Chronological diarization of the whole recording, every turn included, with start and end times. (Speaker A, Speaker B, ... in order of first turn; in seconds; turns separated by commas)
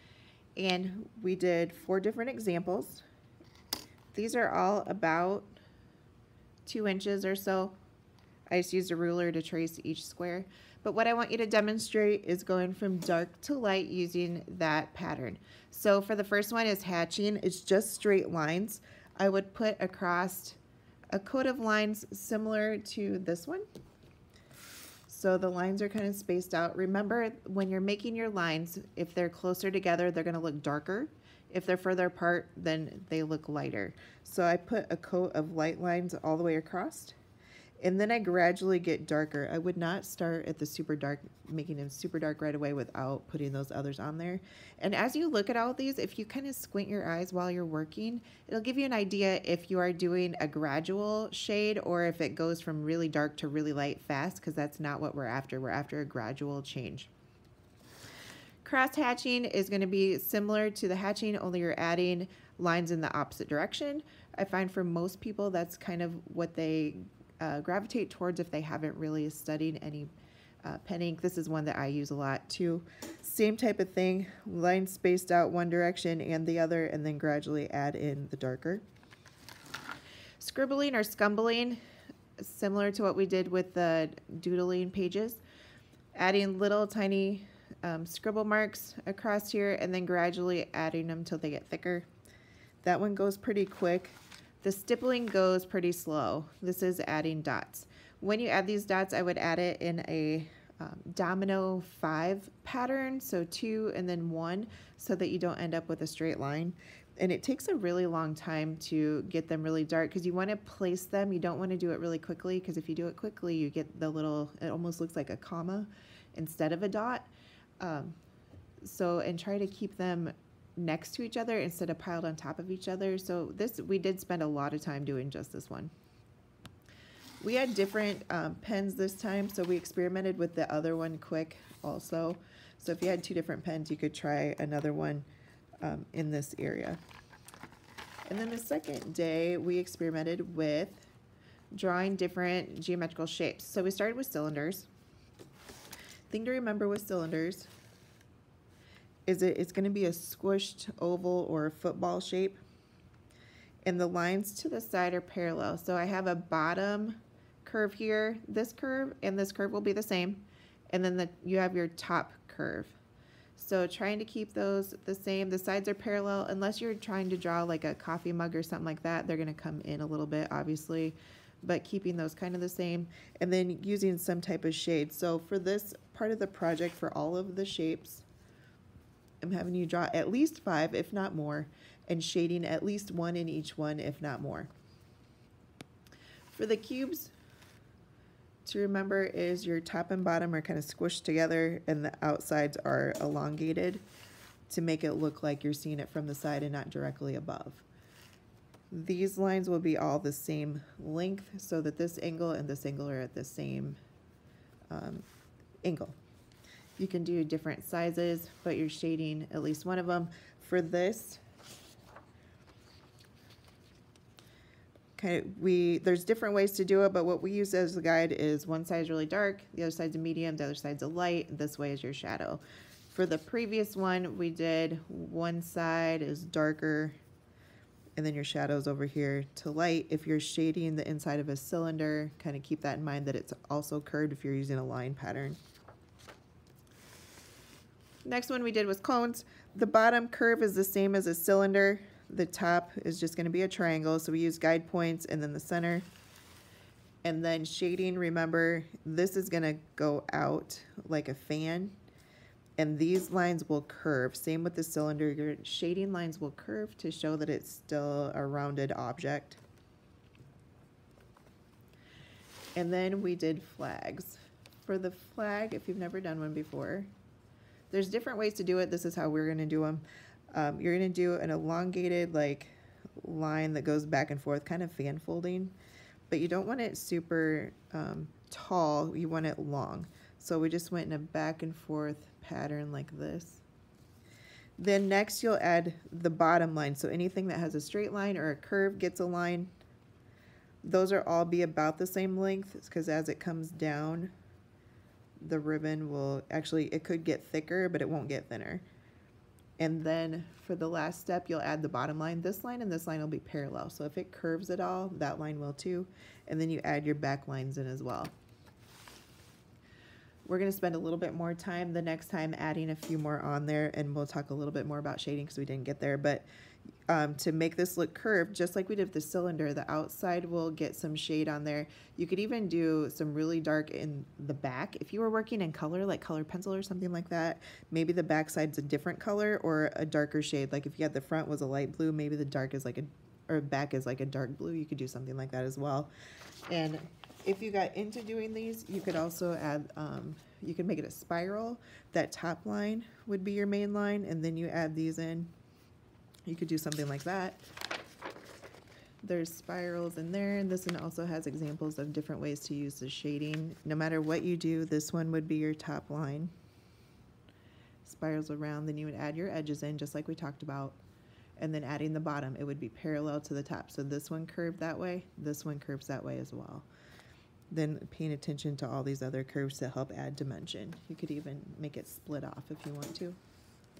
Speaker A: 0.6-3.0, Speaker A: 4.1-5.5, Speaker A: 6.7-7.7, Speaker A: 8.5-20.6, Speaker A: 21.1-23.6, Speaker A: 25.1-37.1, Speaker A: 37.8-57.1, Speaker A: 58.6-70.1, Speaker A: 70.6-78.8, Speaker A: 80.4-81.8, Speaker A: 82.4-85.4, Speaker A: 86.1-92.1, Speaker A: 92.8-118.2, Speaker A: 118.8-125.9, Speaker A: 127.4-135.3, Speaker A: 135.8-137.0, Speaker A: 138.2-141.1, Speaker A: 141.7-144.9, Speaker A: 146.3-147.7, Speaker A: 149.3-152.6, Speaker A: 153.8-163.0, Speaker A: 163.6-178.2, Speaker A: 179.4-184.7, Speaker A: 186.5-187.3, Speaker A: 188.6-194.0, Speaker A: 194.7-197.8, Speaker A: 198.9-204.0, Speaker A: 204.9-205.2, Speaker A: 205.8-206.2, Speaker A: 207.0-211.4, Speaker A: 215.2-227.2, Speaker A: 228.2-235.6, Speaker A: 238.2-246.1, Speaker A: 247.2-252.0, Speaker A: 252.8-259.6, Speaker A: 262.8-267.1, Speaker A: 267.9-275.7, Speaker A: 276.3-283.6, Speaker A: 284.8-289.7, Speaker A: 290.8-294.3, Speaker A: 295.4-298.8, Speaker A: 299.8-308.3, Speaker A: 310.4-316.4, Speaker A: 317.1-336.1, Speaker A: 336.7-345.5, Speaker A: 346.5-347.6, Speaker A: 349.2-356.5, Speaker A: 358.0-361.0, Speaker A: 361.6-366.9, Speaker A: 367.7-373.4